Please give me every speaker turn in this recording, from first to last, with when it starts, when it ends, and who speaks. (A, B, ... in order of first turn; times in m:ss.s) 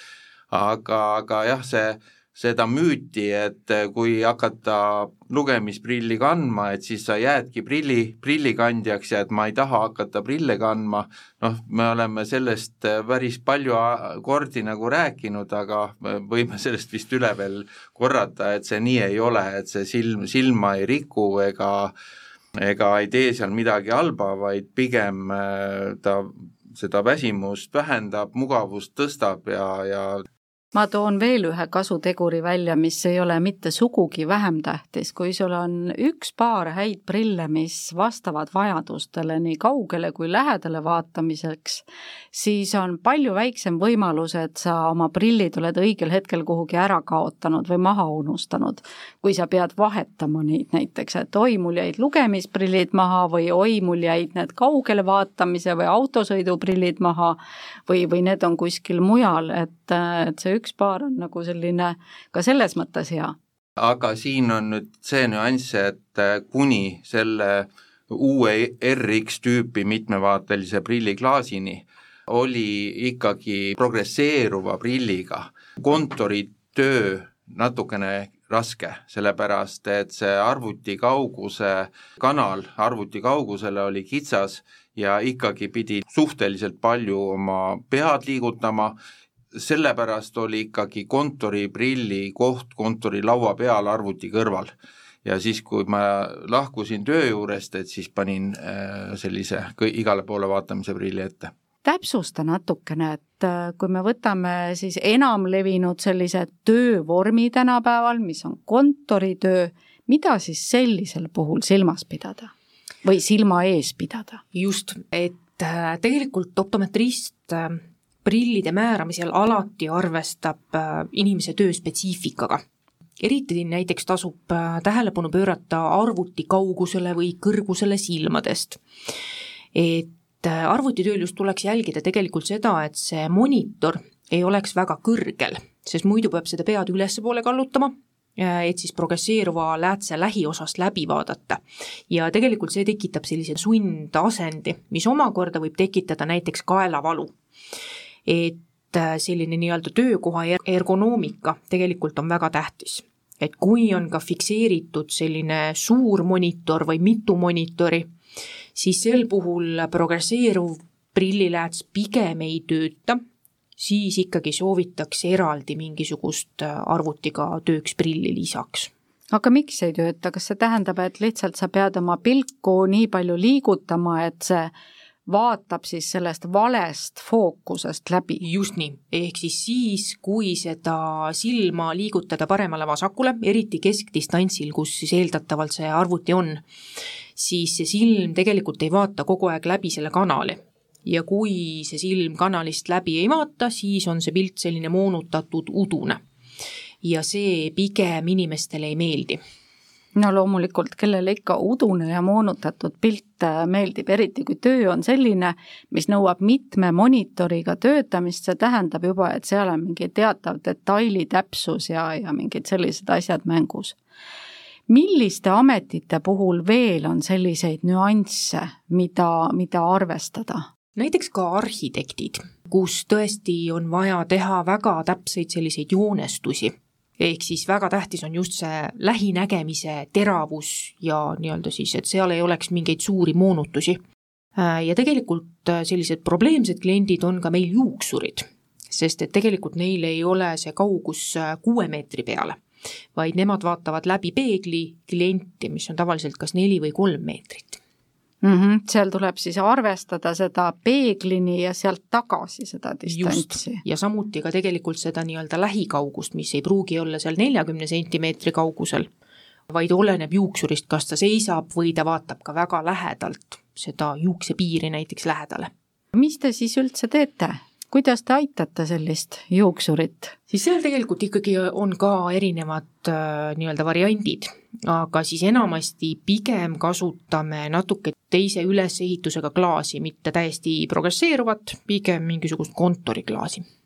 0:00.5-0:21.9 A
0:22.6-0:30.3 A
0:30.7-1:03.3 B
1:03.8-1:28.9 A
1:29.5-1:34.7 A
1:35.2-1:41.5 A
1:41.8-1:52.5 B
1:53.0-1:54.4 B
1:54.5-2:02.6 C
2:03.2-2:08.8 C
2:09.7-2:27.3 C
2:28.2-2:38.1 C
2:38.7-2:43.2 C
2:43.8-2:48.9 C
2:49.3-2:54.7 B
2:55.3-2:58.4 B
2:58.4-3:06.6 C
3:07.4-3:16.2 C
3:17.0-3:19.4 C
3:20.2-3:34.0 B
3:34.9-3:40.6 B
3:41.0-3:54.0 C
3:54.6-4:02.6 C
4:03.1-4:07.8 C
4:08.4-4:13.8 B
4:13.1-4:19.1 C
4:19.7-4:25.7 C
4:26.1-4:30.4 B
4:30.5-4:43.6 C